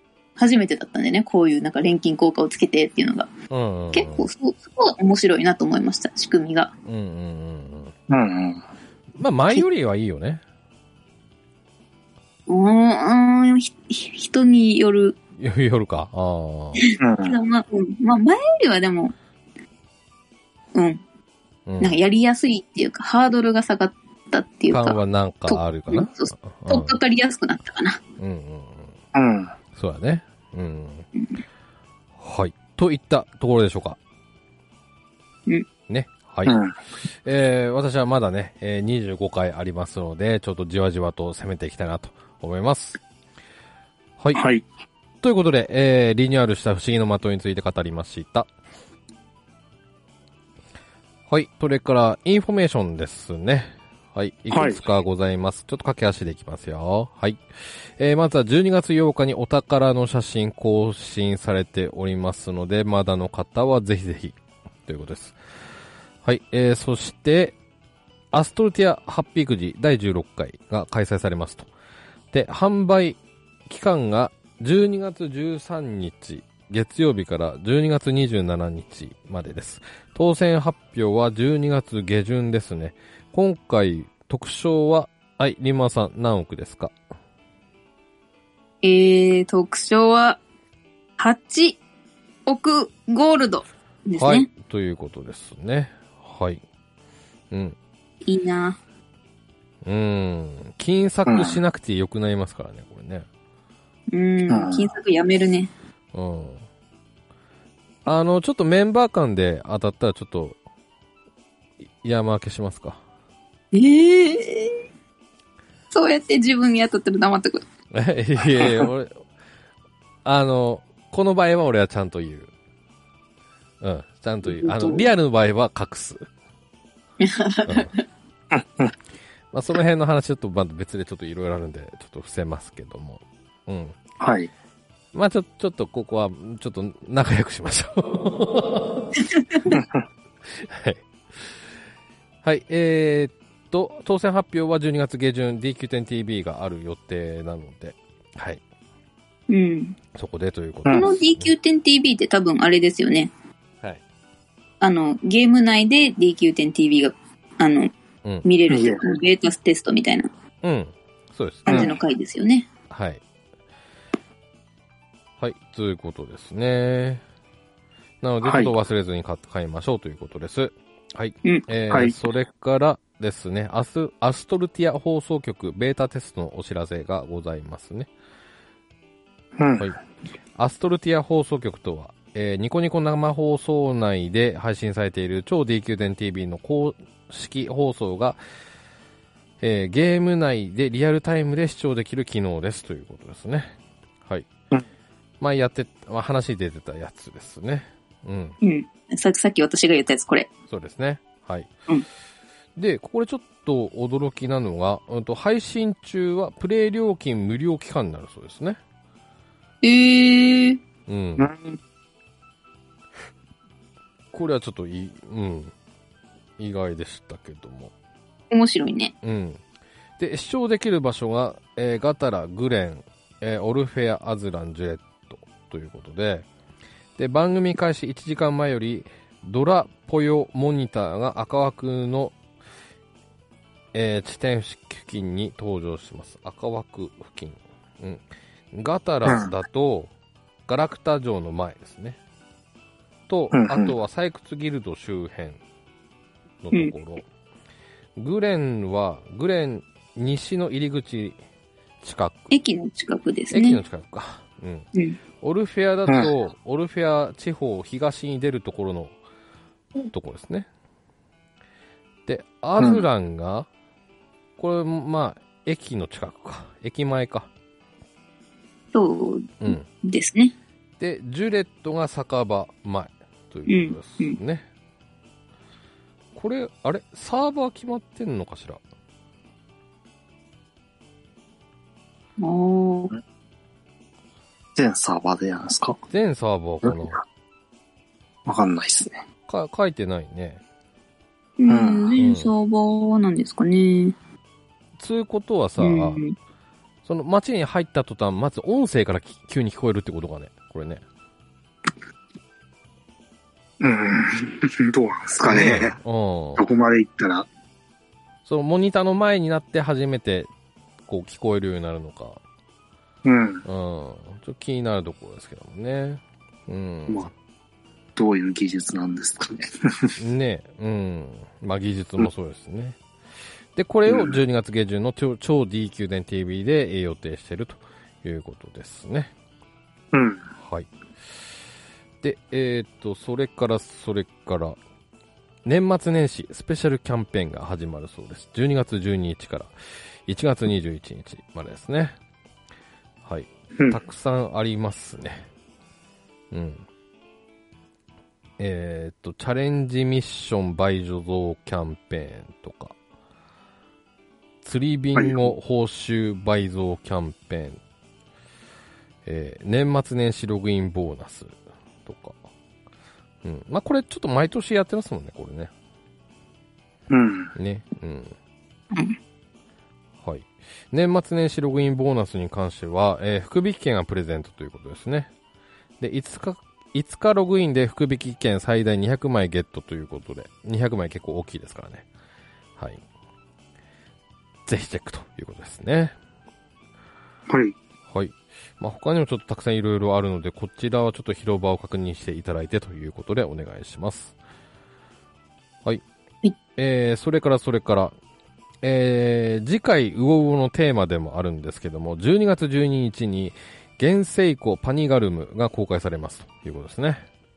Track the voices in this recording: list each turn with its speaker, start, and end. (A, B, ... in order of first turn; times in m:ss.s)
0:00.4-0:03.3 A
0:03.5-0:04.3 B
0:03.9-0:06.7 A
0:06.9-0:07.9 B
0:08.1-0:08.6 C
0:09.2-0:10.4 B
0:12.5-0:15.2 A
0:15.4-0:16.8 B
0:16.9-0:19.1 A
0:17.0-0:17.4 C
0:20.7-0:21.0 A
0:21.7-0:22.0 B
0:21.8-0:28.0 A
0:24.7-0:27.0 B
0:28.2-0:29.0 B
0:29.1-0:29.5 C
0:29.8-0:31.1 B
0:31.2-0:31.4 A
0:32.2-0:34.0 B
0:35.9-0:36.6 B
0:36.5-0:36.8 C
0:37.2-0:43.0 B
0:44.4-0:44.6 C
0:45.2-0:48.5 B
0:51.3-0:57.4 B
0:54.5-0:54.8 C
0:58.0-1:04.4 B
1:04.9-1:05.4 B
1:06.2-1:07.6 B
1:08.3-1:11.7 B
1:12.3-1:13.2 B
1:13.7-1:26.9 B
1:28.8-1:30.4 A
1:31.2-1:31.8 A
1:32.5-1:34.5 A
1:34.2-1:36.6 B
1:37.5-1:37.8 B
1:38.3-1:38.8 A
1:39.8-1:43.3 B
1:41.3-1:41.6 C
1:44.1-1:45.7 A
1:44.5-1:44.9 C
1:46.1-1:46.6 B
1:48.0-1:50.6 B
1:52.0-1:53.0 B
1:53.7-1:54.8 A
1:55.9-1:57.6 A
1:57.9-1:59.2 B
1:58.6-1:58.9 C
2:00.2-2:02.5 B
2:03.8-2:06.2 B
2:04.5-2:05.1 A
2:07.2-2:08.0 A
2:08.5-2:08.9 C
2:09.5-2:14.0 B
2:14.2-2:14.5 C
2:15.1-2:19.2 B
2:19.7-2:20.0 C
2:20.6-2:21.5 B
2:22.4-2:28.6 B
2:29.5-2:30.0 A
2:30.2-2:31.5 B
2:30.9-2:33.3 A
2:34.8-2:37.9 A
2:38.4-2:40.3 A
2:38.7-2:39.1 C
2:40.6-2:42.0 B
2:41.6-2:42.7 A
2:41.7-2:42.0 C
2:42.9-2:43.2 B
2:45.4-2:47.2 B
2:48.2-2:58.1 B
2:48.4-2:48.7 C
2:59.6-2:59.9 C
3:00.6-3:08.4 B
3:09.6-3:14.5 B
3:15.4-3:18.6 B
3:18.6-3:20.5 A
3:20.7-3:21.7 B
3:22.8-3:28.8 B
3:29.8-3:30.8 A
3:31.1-3:31.5 B
3:31.4-3:31.8 C
3:34.3-3:35.7 B
3:36.6-3:37.9 B
3:38.5-3:39.1 A
3:39.2-3:39.6 B
3:40.2-3:46.5 B
3:47.2-3:52.4 B
3:53.9-4:00.1 B
3:59.2-3:59.5 C
4:00.7-4:02.2 B
4:03.3-4:05.6 B
4:03.5-4:03.9 C
4:06.6-4:07.2 B
4:08.2-4:11.4 B
4:12.0-4:12.5 B
4:12.5-4:13.8 A
4:13.5-4:14.9 B
4:15.4-4:19.2 B
4:20.1-4:20.7 B
4:22.3-4:23.7 B
4:22.8-4:23.0 C
4:24.6-4:27.5 B
4:28.9-4:30.6 A
4:31.0-4:34.6 B
4:33.7-4:34.4 A
4:36.4-4:38.8 B
4:42.4-4:43.2 A
4:44.8-4:46.0 C
4:46.1-4:47.2 B
4:48.5-4:49.2 C
4:49.5-4:50.6 B
4:51.6-4:54.2 A
4:51.7-4:52.2 C
4:52.2-4:52.5 B
4:55.0-4:56.2 B
4:55.8-4:56.4 A
4:57.0-5:01.0 B
5:03.8-5:06.0 C
5:05.5-5:06.7 B
5:06.6-5:07.5 C
5:08.5-5:10.5 B
5:11.1-5:12.4 B
5:13.2-5:13.6 C
5:13.6-5:17.3 B
5:18.2-5:20.2 C
5:20.2-5:23.0 B
5:23.8-5:29.3 B
5:24.1-5:24.4 C
5:30.1-5:30.5 C
5:30.6-5:30.9 B
5:32.2-5:34.8 B
5:35.6-5:39.7 B
5:40.3-5:42.2 B
5:43.2-5:45.5 B
5:46.5-5:46.8 B
5:48.6-5:53.0 B
5:54.6-5:57.8 B
5:55.2-5:55.5 C
5:59.2-6:01.6 B
6:02.1-6:02.4 B
6:03.4-6:05.7 B
6:07.1-6:07.5 C
6:07.6-6:08.3 B
6:10.2-6:15.3 B
6:16.0-6:22.0 B
6:22.8-6:23.0 B
6:24.7-6:26.2 B
6:27.5-6:27.8 C
6:28.1-6:34.3 B
6:36.8-6:38.1 B
6:38.8-6:47.2 B